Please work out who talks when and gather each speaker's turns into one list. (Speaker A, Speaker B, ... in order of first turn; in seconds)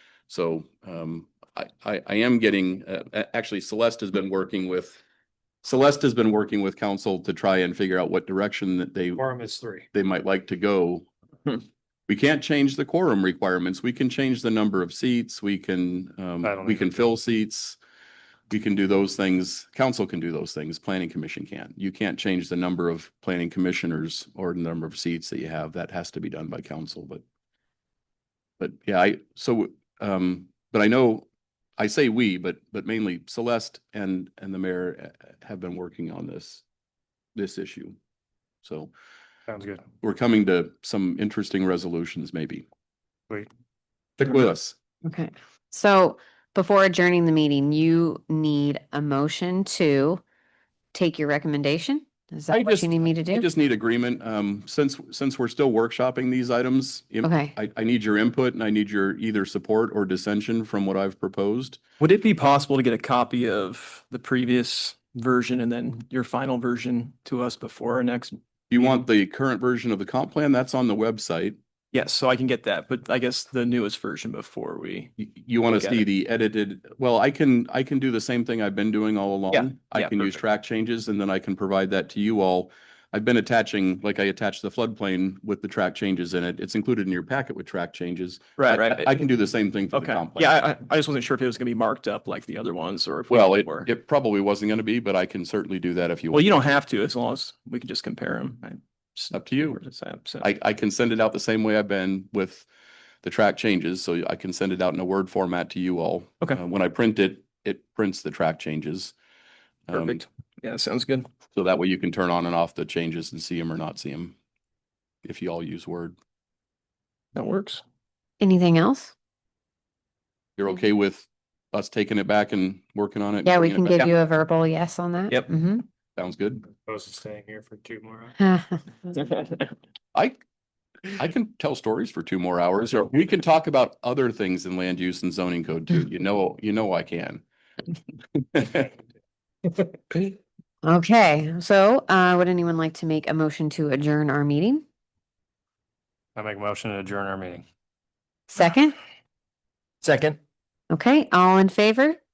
Speaker A: 0.3-5.0, 5.6-9.2, 9.9-11.1, 12.1-17.8, 18.5-27.2, 28.6-31.3, 31.8-36.6, 37.3-38.0, 38.6-38.9, 40.0-42.6, 44.2-44.8, 52.5-61.8, 68.7-71.6, 75.2-90.5, 93.3-96.4, 99.3-99.8, 100.4-102.7, 103.2-109.1, 109.9-110.2, 111.5-114.3, 115.2-116.2, 120.6-124.1, 126.2-126.7, 130.1-130.4, 131.1-137.4, 138.3-138.9
Speaker B: 9.1-9.8, 16.4-17.1, 39.5-39.8, 126.8-128.3, 146.3-147.6
Speaker C: 45.0-50.2, 50.9-53.5, 57.2-57.5, 118.4-119.1, 123.4-125.8, 128.4-128.9, 140.8-144.8, 148.5-148.9, 150.9-152.2
Speaker D: 62.0-68.4, 71.9-75.1, 75.7-76.0, 79.5-80.3, 88.6-89.2, 89.9-93.9, 96.3-100.5, 109.9-111.3, 117.3-117.8, 129.2-129.6